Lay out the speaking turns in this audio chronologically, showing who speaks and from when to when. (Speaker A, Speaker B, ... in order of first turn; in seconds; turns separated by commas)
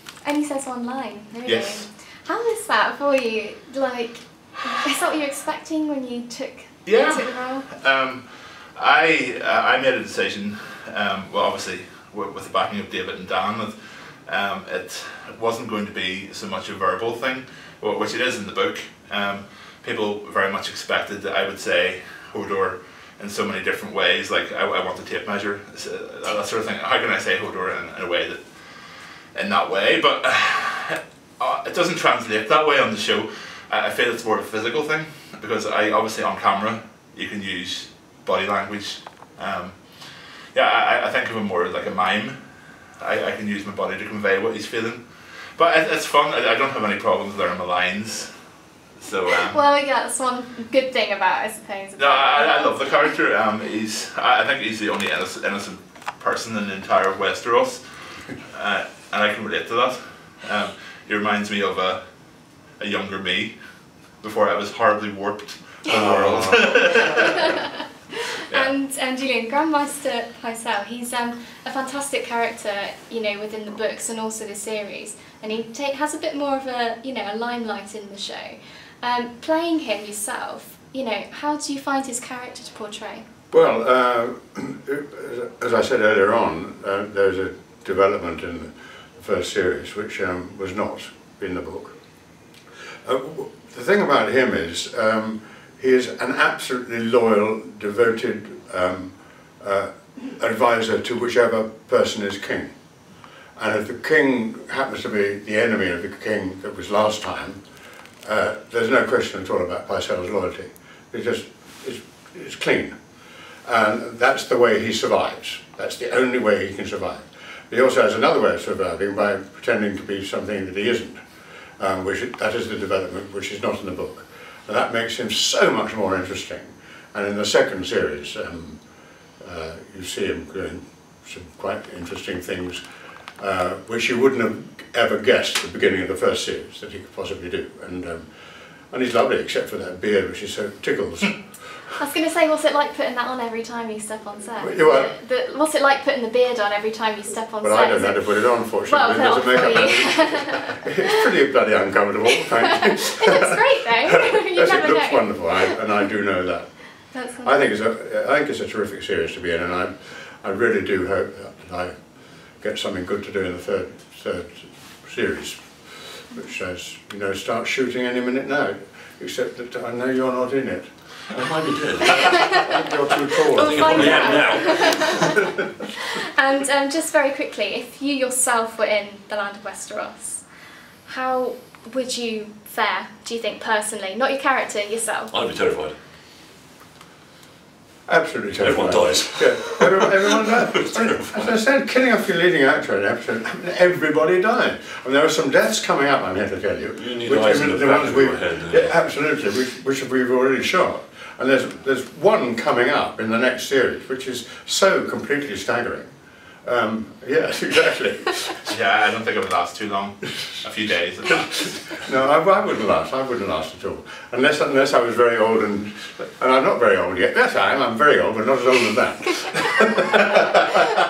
Speaker A: 0.2-7.7, Speaker B: 1.4-1.9, Speaker B: 6.8-48.4, Speaker B: 49.0-49.6, Speaker A: 49.4-53.1, Speaker B: 52.0-62.0, Speaker B: 62.8-63.6, Speaker B: 64.1-67.5, Speaker C: 65.9-67.3, Speaker A: 66.9-67.3, Speaker A: 68.5-83.3, Speaker C: 83.5-91.9, Speaker C: 93.0-102.7, Speaker C: 103.6-107.6, Speaker C: 108.2-113.0, Speaker C: 113.7-121.2, Speaker C: 121.8-128.8, Speaker C: 129.4-132.8, Speaker C: 133.4-138.3, Speaker C: 138.9-141.4, Speaker A: 142.0-150.9, Speaker C: 144.6-145.1, Speaker C: 147.6-161.9, Speaker A: 152.6-155.8, Speaker A: 157.1-157.6, Speaker C: 162.6-171.5, Speaker D: 171.3-172.6, Speaker C: 172.2-175.0, Speaker D: 173.5-175.4, Speaker A: 173.6-175.4, Speaker A: 176.1-180.5, Speaker A: 181.0-185.3, Speaker D: 185.3-185.9, Speaker C: 188.1-206.1, Speaker D: 188.6-191.5, Speaker D: 196.9-199.0, Speaker C: 206.6-208.7, Speaker B: 208.7-212.0, Speaker C: 212.0-220.4